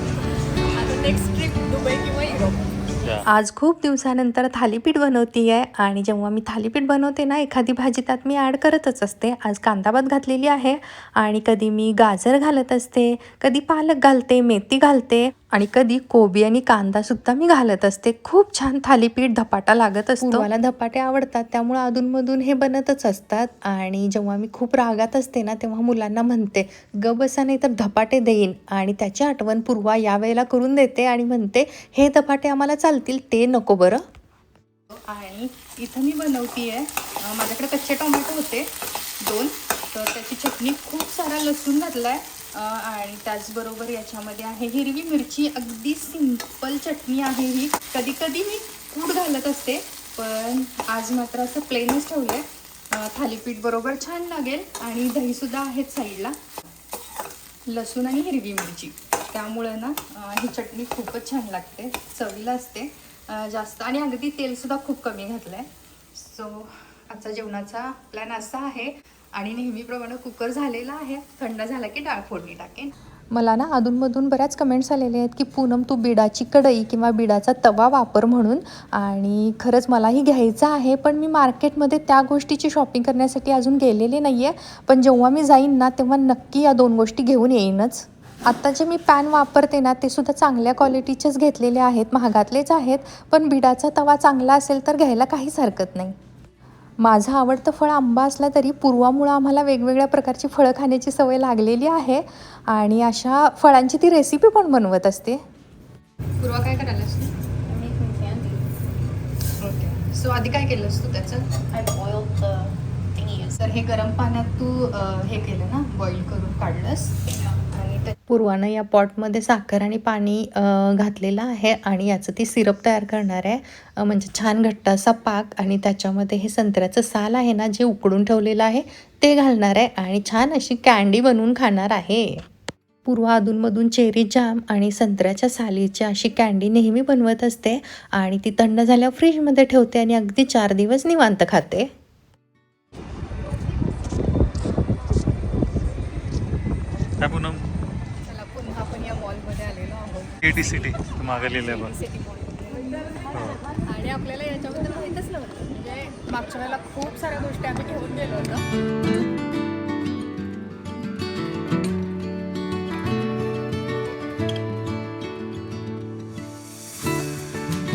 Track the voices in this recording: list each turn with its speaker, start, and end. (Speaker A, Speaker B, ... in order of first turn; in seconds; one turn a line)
Speaker A: 0.2-2.7
Speaker B: 3.0-3.3
Speaker C: 3.3-34.0
Speaker A: 20.2-20.5
Speaker C: 35.1-38.7
Speaker C: 39.2-56.3
Speaker C: 57.7-96.2
Speaker C: 97.0-105.4
Speaker C: 106.4-107.3
Speaker A: 107.8-108.6
Speaker C: 109.6-112.5
Speaker A: 111.8-112.6
Speaker C: 113.3-117.2
Speaker C: 117.8-132.4
Speaker C: 133.1-141.9
Speaker B: 147.2-147.7
Speaker A: 148.3-150.3
Speaker B: 150.4-151.9
Speaker A: 151.6-153.0
Speaker B: 153.3-153.6
Speaker A: 153.8-156.4
Speaker C: 156.3-158.6
Speaker A: 157.7-158.5